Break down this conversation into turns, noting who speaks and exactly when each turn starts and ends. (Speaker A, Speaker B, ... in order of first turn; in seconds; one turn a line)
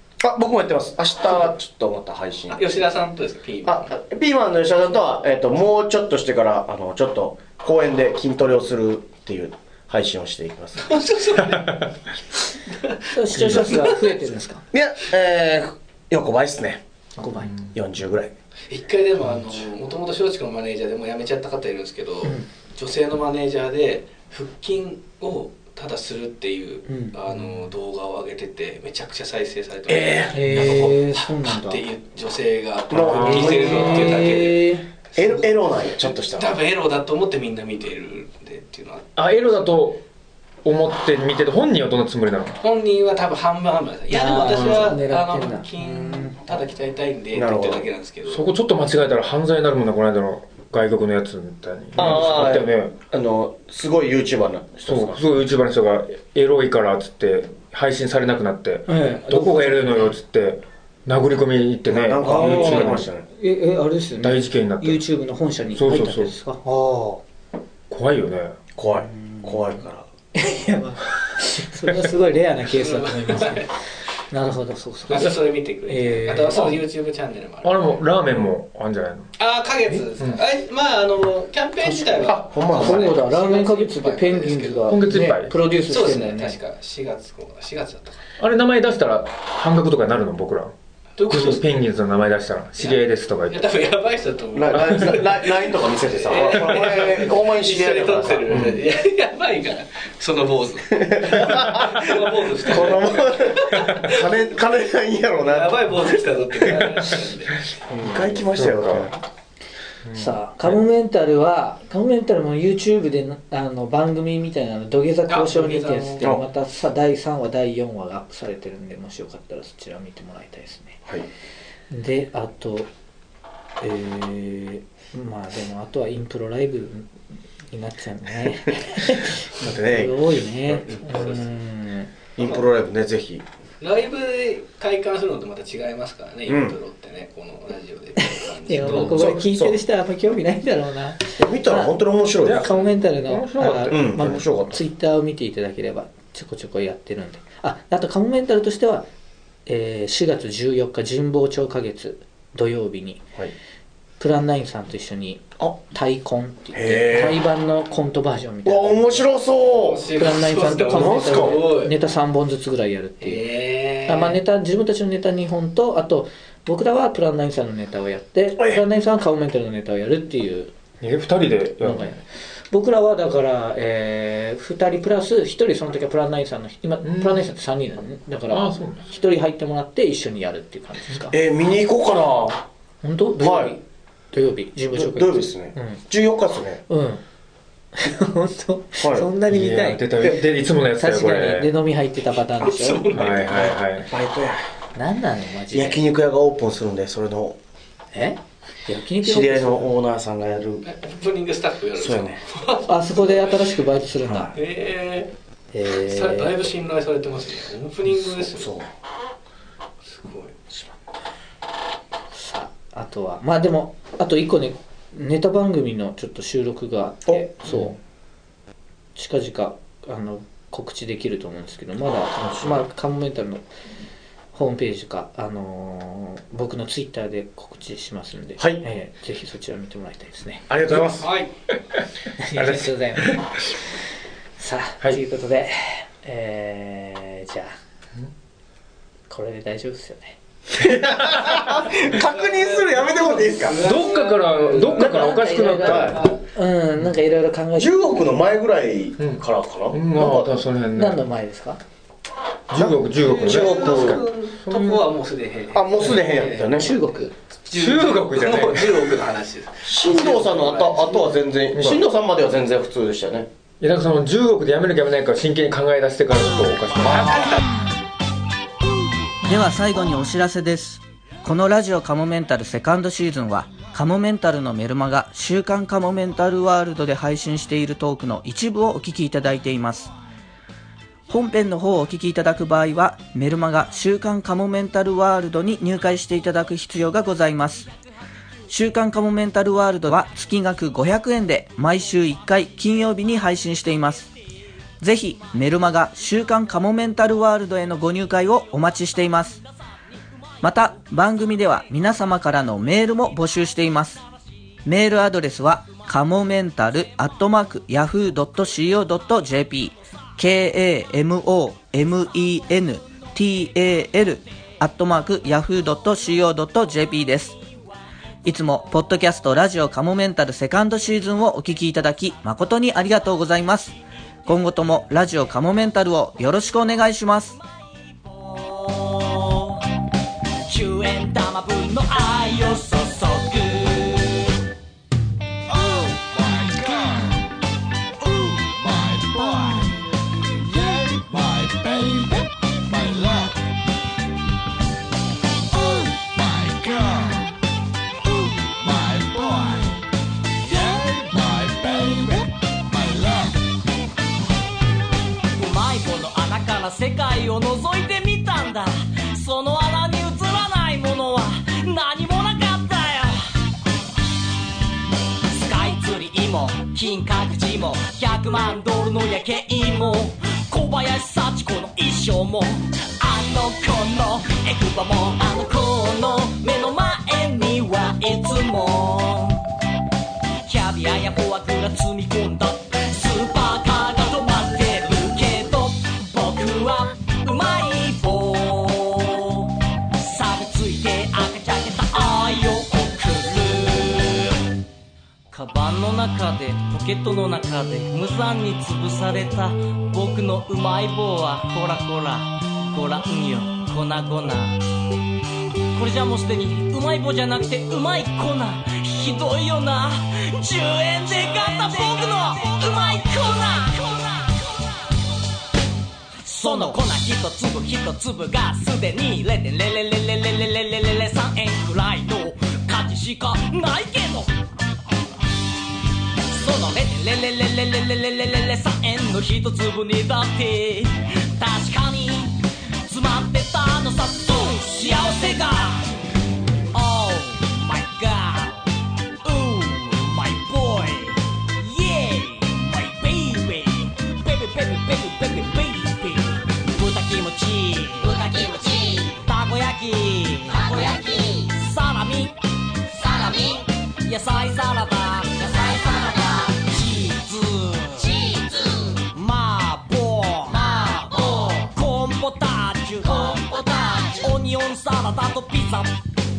Speaker A: 0.2-2.8
Speaker B: 2.5-3.9
Speaker A: 3.6-10.9
Speaker B: 10.8-11.9
Speaker B: 12.8-14.3
Speaker C: 13.1-14.7
Speaker D: 13.4-13.8
Speaker A: 14.7-16.8
Speaker C: 17.2-17.5
Speaker A: 17.7-18.3
Speaker B: 18.7-39.7
Speaker C: 26.9-27.1
Speaker D: 27.3-27.7
Speaker A: 29.9-30.4
Speaker C: 30.3-31.8
Speaker A: 32.9-34.3
Speaker D: 33.0-34.0
Speaker C: 33.2-34.8
Speaker A: 35.1-36.6
Speaker D: 39.1-40.0
Speaker D: 40.6-42.6
Speaker B: 42.6-48.5
Speaker C: 44.1-46.4
Speaker D: 44.4-44.9
Speaker A: 47.3-47.9
Speaker D: 48.3-52.9
Speaker A: 52.0-55.2
Speaker D: 54.9-63.0
Speaker C: 58.9-60.1
Speaker A: 61.9-63.2
Speaker C: 62.2-67.2
Speaker D: 64.2-65.0
Speaker D: 65.7-66.3
Speaker D: 67.9-68.6
Speaker A: 68.7-70.0
Speaker C: 69.0-69.6
Speaker C: 70.3-73.7
Speaker B: 72.7-73.7
Speaker C: 74.3-76.8
Speaker B: 75.1-77.9
Speaker D: 77.6-79.3
Speaker B: 79.4-85.1
Speaker D: 80.0-80.4
Speaker C: 81.8-86.6
Speaker A: 82.2-83.2
Speaker D: 84.9-85.5
Speaker B: 85.8-88.2
Speaker D: 88.4-90.7
Speaker B: 91.2-91.7
Speaker D: 91.3-93.6
Speaker B: 92.8-104.3
Speaker A: 94.5-98.8
Speaker D: 98.5-98.8
Speaker A: 101.0-105.9
Speaker B: 105.4-107.7
Speaker C: 107.9-108.5
Speaker A: 108.0-109.1
Speaker D: 108.5-109.1
Speaker D: 110.1-110.7
Speaker C: 110.1-121.0
Speaker B: 115.3-116.3
Speaker C: 121.9-122.9
Speaker C: 123.8-127.1
Speaker C: 127.7-132.1
Speaker A: 129.6-131.0
Speaker B: 130.9-131.4
Speaker A: 132.3-133.4
Speaker B: 132.4-132.6
Speaker B: 133.8-139.3
Speaker A: 136.4-136.8
Speaker C: 138.2-149.1
Speaker A: 138.9-139.8
Speaker A: 141.4-142.7
Speaker D: 142.4-142.7
Speaker D: 143.2-144.0
Speaker A: 143.9-144.8
Speaker C: 149.7-153.2
Speaker C: 154.2-159.3
Speaker A: 156.7-157.4
Speaker A: 158.6-160.1
Speaker B: 159.7-161.9
Speaker C: 160.2-163.4
Speaker A: 160.9-161.6
Speaker B: 163.2-164.4
Speaker C: 164.1-170.7
Speaker A: 168.6-168.8
Speaker D: 171.0-172.2
Speaker C: 171.8-172.2
Speaker C: 172.7-181.3
Speaker D: 177.0-177.5
Speaker D: 178.5-179.0
Speaker A: 181.3-182.6
Speaker C: 183.0-183.8
Speaker A: 183.4-183.8
Speaker C: 184.3-186.0
Speaker A: 184.9-186.8
Speaker C: 186.9-187.2
Speaker C: 187.9-190.1
Speaker A: 189.0-189.3
Speaker D: 189.5-191.7
Speaker C: 191.0-193.2
Speaker B: 192.6-193.6
Speaker D: 193.1-194.1
Speaker A: 193.3-194.6
Speaker C: 194.9-196.0
Speaker A: 195.7-197.6
Speaker C: 198.1-199.9
Speaker A: 199.2-200.8
Speaker B: 200.8-203.7
Speaker A: 201.9-202.4
Speaker C: 202.9-204.5
Speaker B: 204.5-205.3
Speaker C: 205.7-206.6
Speaker B: 206.0-208.7
Speaker A: 208.4-208.9
Speaker B: 210.0-210.5
Speaker A: 210.7-211.0
Speaker C: 212.3-218.0
Speaker A: 217.2-217.8
Speaker C: 219.2-223.6
Speaker A: 222.3-222.8
Speaker C: 224.5-230.7
Speaker A: 228.6-228.8
Speaker A: 230.7-231.3
Speaker B: 231.1-231.5
Speaker C: 232.4-233.5
Speaker D: 232.5-233.6
Speaker C: 234.6-237.7
Speaker C: 239.3-240.4
Speaker A: 240.8-243.8
Speaker D: 240.9-241.6
Speaker B: 242.0-245.1
Speaker D: 243.7-246.2
Speaker C: 244.9-247.9
Speaker A: 245.0-246.2
Speaker A: 247.7-250.5
Speaker D: 249.2-251.2
Speaker C: 250.9-251.8
Speaker D: 252.7-255.1
Speaker A: 252.7-254.2
Speaker B: 253.2-256.9
Speaker A: 255.7-256.9
Speaker C: 256.8-257.3
Speaker B: 257.7-261.3
Speaker D: 257.7-259.0
Speaker A: 259.8-263.5
Speaker D: 263.8-267.5
Speaker A: 267.1-267.5
Speaker B: 267.1-267.6
Speaker E: 269.4-280.1
Speaker E: 281.3-287.9
Speaker E: 288.7-294.3
Speaker E: 295.0-299.6
Speaker E: 300.6-304.2
Speaker E: 304.8-317.6
Speaker E: 318.4-323.9
Speaker E: 324.4-327.5
Speaker F: 328.2-329.8
Speaker F: 330.6-334.5
Speaker F: 339.1-339.9
Speaker F: 346.8-347.1
Speaker F: 349.1-349.8
Speaker F: 350.8-352.4
Speaker F: 355.5-363.4
Speaker F: 365.5-379.6
Speaker F: 380.6-394.6
Speaker F: 395.5-404.8
Speaker F: 405.9-414.9
Speaker F: 416.4-424.5
Speaker F: 426.5-436.1
Speaker F: 436.9-438.9
Speaker F: 439.4-452.5
Speaker F: 453.1-466.2